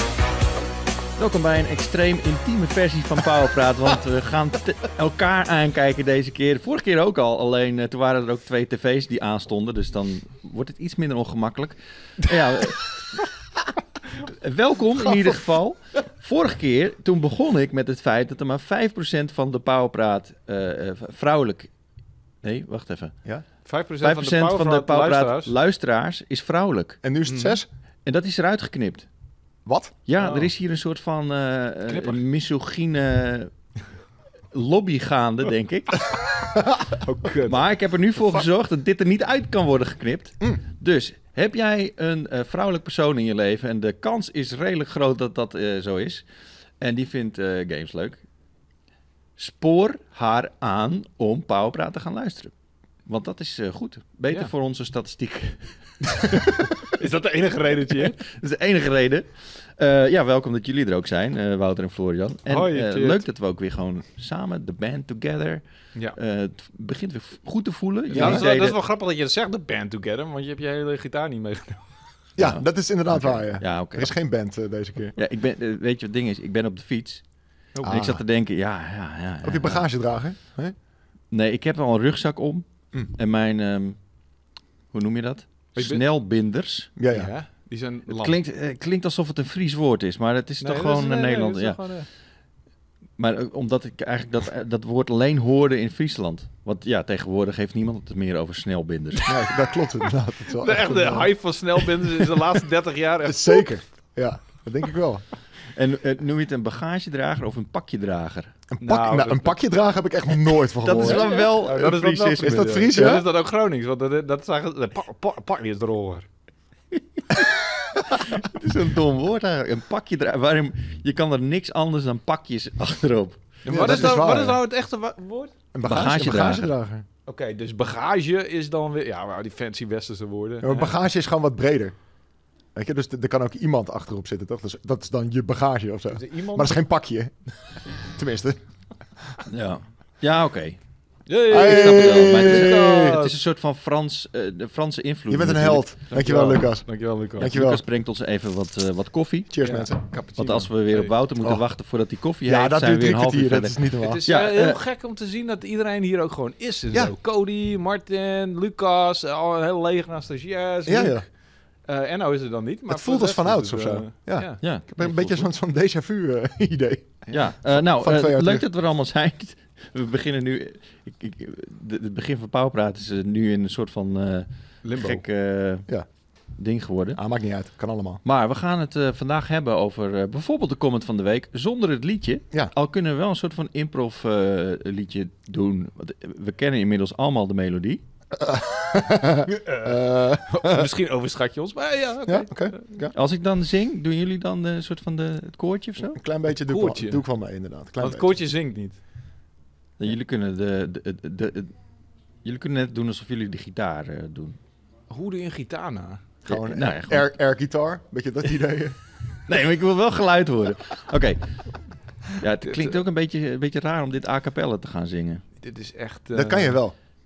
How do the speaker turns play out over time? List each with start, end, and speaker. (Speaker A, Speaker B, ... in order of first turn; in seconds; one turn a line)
Speaker A: 1.2-13.2
Speaker A: 14.2-21.7
Speaker A: 22.4-23.1
Speaker B: 23.6-25.5
Speaker A: 24.0-27.0
Speaker C: 27.0-27.7
Speaker B: 27.3-27.6
Speaker A: 28.1-29.1
Speaker C: 29.6-29.9
Speaker A: 30.1-33.5
Speaker B: 30.2-30.5
Speaker B: 31.9-32.2
Speaker A: 34.5-36.1
Speaker B: 37.0-37.6
Speaker A: 37.5-46.2
Speaker A: 46.8-48.2
Speaker A: 49.4-52.5
Speaker A: 53.0-55.7
Speaker B: 56.3-58.2
Speaker A: 58.0-65.6
Speaker B: 62.5-63.2
Speaker A: 66.2-68.8
Speaker B: 68.1-71.8
Speaker C: 68.1-68.4
Speaker C: 72.4-75.1
Speaker A: 72.4-74.1
Speaker A: 75.2-77.2
Speaker B: 77.7-78.0
Speaker C: 77.8-78.2
Speaker A: 77.9-79.8
Speaker C: 79.4-80.7
Speaker A: 81.3-84.0
Speaker A: 84.9-86.9
Speaker B: 85.7-86.0
Speaker C: 87.0-87.3
Speaker B: 87.1-88.4
Speaker A: 88.1-91.8
Speaker B: 90.6-92.1
Speaker A: 93.2-99.3
Speaker C: 99.2-101.3
Speaker B: 100.6-103.7
Speaker C: 103.2-105.2
Speaker A: 105.7-108.5
Speaker C: 108.7-111.3
Speaker B: 108.8-109.5
Speaker A: 110.8-113.1
Speaker B: 111.0-116.3
Speaker C: 112.4-113.2
Speaker A: 118.1-124.0
Speaker B: 123.6-125.5
Speaker C: 123.7-124.6
Speaker C: 125.7-127.0
Speaker A: 125.8-126.7
Speaker B: 127.2-130.9
Speaker C: 130.6-131.9
Speaker C: 132.7-137.3
Speaker B: 136.1-136.8
Speaker C: 138.0-138.6
Speaker A: 139.5-140.8
Speaker B: 141.3-143.3
Speaker C: 141.5-143.2
Speaker A: 141.5-145.9
Speaker C: 145.3-147.8
Speaker B: 146.1-147.5
Speaker A: 147.4-149.5
Speaker C: 149.5-150.2
Speaker B: 149.6-151.1
Speaker A: 150.3-154.8
Speaker C: 152.4-154.2
Speaker B: 154.0-161.2
Speaker C: 160.8-161.2
Speaker B: 161.8-164.6
Speaker C: 162.9-168.6
Speaker A: 164.6-165.5
Speaker A: 167.3-175.9
Speaker B: 174.8-175.2
Speaker A: 176.6-177.2
Speaker C: 177.1-178.2
Speaker A: 178.2-188.0
Speaker C: 188.3-190.9
Speaker B: 189.5-192.8
Speaker C: 192.3-193.1
Speaker A: 193.1-196.2
Speaker C: 196.0-198.3
Speaker B: 196.6-197.2
Speaker B: 198.0-199.0
Speaker A: 200.0-201.7
Speaker A: 202.4-204.6
Speaker B: 205.1-206.2
Speaker C: 206.4-209.0
Speaker A: 206.5-207.3
Speaker A: 209.5-211.5
Speaker A: 212.3-215.4
Speaker B: 215.6-216.8
Speaker C: 216.3-216.9